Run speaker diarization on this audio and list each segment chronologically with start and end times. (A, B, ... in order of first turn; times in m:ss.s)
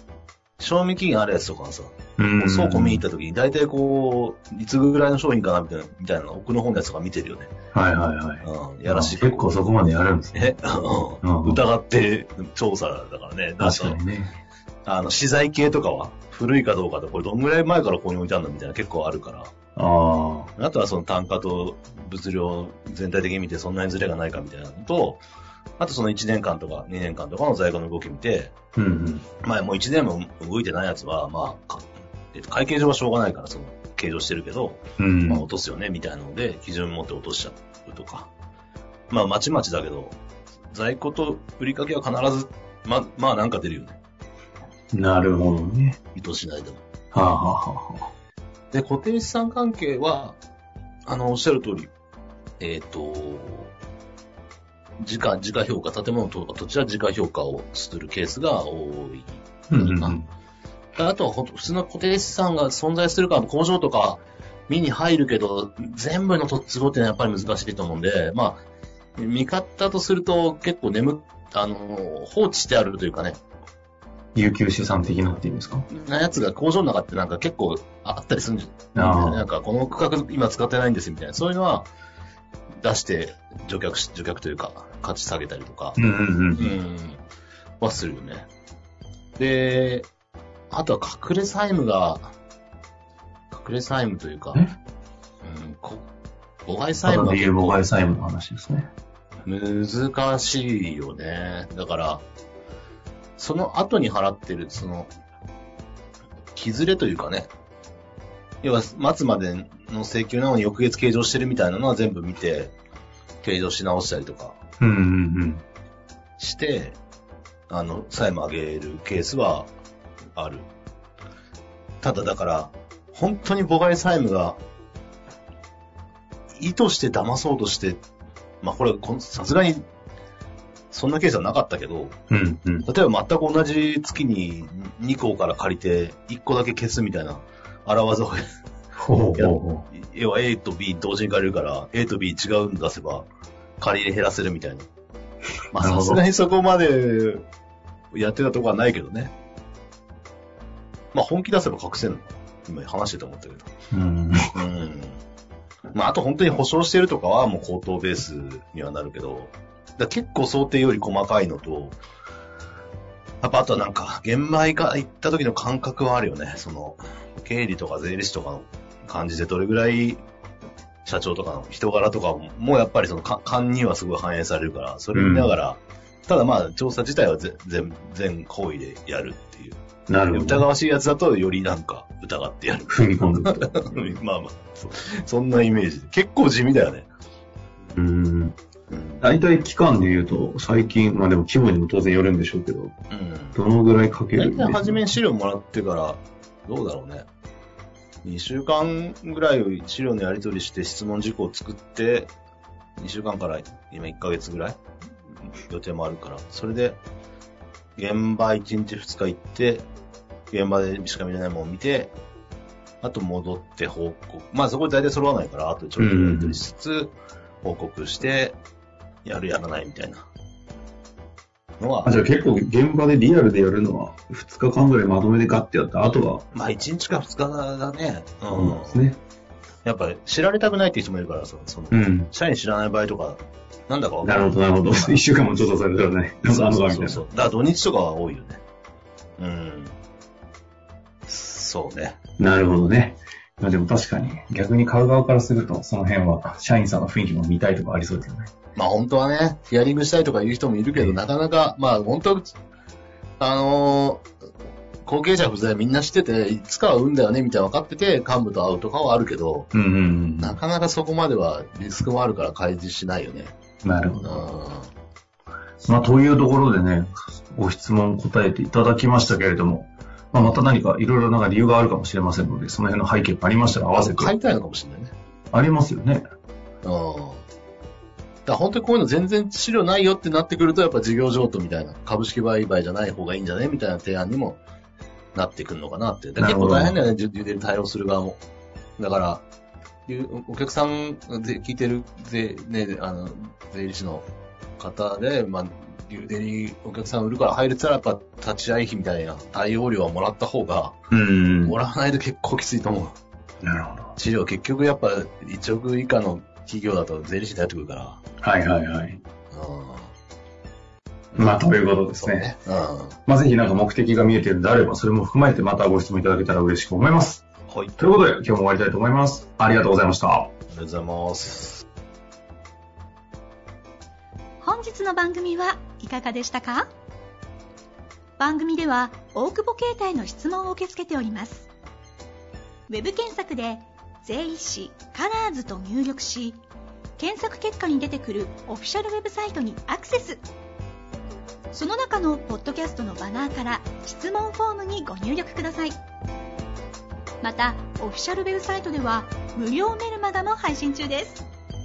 0:00.6-0:07.5 A
0:02.2-0:03.0 B
0:07.7-0:11.6 B
0:08.4-0:09.5 A
0:10.3-0:14.0 A
0:13.6-0:14.3 B
0:14.8-0:19.5 A
0:19.8-0:20.5 B
0:20.6-0:25.2 A
0:25.8-0:28.5 A
0:28.8-0:29.2 B
0:29.4-0:38.3 A
0:35.0-0:35.5 B
0:39.1-0:40.2 A
0:40.7-0:44.0 A
0:44.9-0:46.0 B
0:46.1-0:46.8 A
0:47.1-0:48.1 B
0:48.7-0:50.4 A
0:51.0-0:51.9 A
0:52.6-0:53.7 A
0:55.0-1:00.2 A
0:59.7-1:00.3 B
1:00.9-1:08.6 A
1:09.2-1:13.4 A
1:14.3-1:15.9 B
1:15.9-1:21.9 A
1:18.9-1:19.5 B
1:22.8-1:26.0 A
1:26.0-1:26.8 B
1:26.6-1:27.2 A
1:27.8-1:28.5 A
1:29.4-1:30.1 A
1:30.7-1:32.3 A
1:33.5-1:34.6 A
1:35.4-1:36.0 A
1:36.6-1:37.8 A
1:37.0-1:38.9 B
1:39.4-1:42.2 A
1:43.4-1:45.1 A
1:46.5-1:47.5 A
1:48.6-1:52.7 A
1:53.4-1:54.6 A
1:54.8-1:55.6 B
1:56.4-1:57.0 A
1:57.7-1:59.7 A
2:00.3-2:00.7 A
2:02.0-2:04.6 A
2:06.5-2:08.0 A
2:08.6-2:09.8 A
2:10.9-2:12.2 A
2:12.3-2:12.9 B
2:12.8-2:18.4 A
2:19.0-2:19.8 B
2:19.4-2:23.3 A
2:23.8-2:24.9 A
2:25.7-2:27.4 A
2:25.7-2:26.2 B
2:28.1-2:29.3 A
2:31.1-2:33.7 A
2:33.9-2:34.6 B
2:34.5-2:35.2 A
2:35.9-2:42.0 A
2:43.4-2:50.2 A
2:51.0-2:59.8 A
2:55.1-2:55.5 B
3:00.1-3:00.6 B
3:00.3-3:07.1 A
3:02.9-3:03.8 B
3:07.9-3:08.5 B
3:08.9-3:09.2 A
3:09.2-3:13.0 B
3:13.1-3:13.6 A
3:13.5-3:15.0 B
3:14.3-3:17.3 A
3:18.2-3:22.3 A
3:23.0-3:24.8 A
3:25.5-3:27.0 A
3:28.0-3:29.9 A
3:30.5-3:32.1 A
3:33.0-3:38.6 A
3:36.0-3:36.6 B
3:39.2-3:40.2 A
3:41.8-3:42.2 A
3:42.0-3:46.4 B
3:46.5-3:49.0 A
3:48.5-3:49.2 B
3:49.8-3:55.2 A
3:51.9-3:52.3 B
3:54.2-3:57.2 B
3:56.4-3:58.6 A
3:59.4-4:00.0 A
4:01.3-4:02.2 A
4:02.4-4:08.5 B
4:08.8-4:12.5 A
4:13.4-4:14.3 A
4:15.0-4:19.7 A
4:19.7-4:20.6 B
4:20.4-4:23.6 A
4:23.8-4:24.5 B
4:24.2-4:24.9 A
4:25.8-4:34.3 B
4:33.9-4:35.1 A
4:35.5-4:36.2 B
4:36.8-4:37.4 A
4:38.4-4:44.6 A
4:45.3-4:48.4 A
4:46.4-4:47.0 B
4:49.0-4:49.4 A
4:50.1-4:54.2 A
4:54.8-5:01.0 A
5:01.1-5:01.8 B
5:01.6-5:03.2 A
5:03.6-5:04.1 B
5:04.1-5:08.2 A
5:08.4-5:09.2 B
5:09.5-5:10.1 A
5:11.3-5:13.2 A
5:11.4-5:12.5 B
5:13.3-5:17.4 B
5:17.7-5:18.1 A
5:18.0-5:20.5 B
5:20.7-5:21.8 A
5:24.6-5:26.9 C
5:28.4-5:31.7 C
5:32.9-5:36.6 C
5:37.2-5:40.4 C
5:41.7-5:45.9 C
5:47.4-5:51.4 C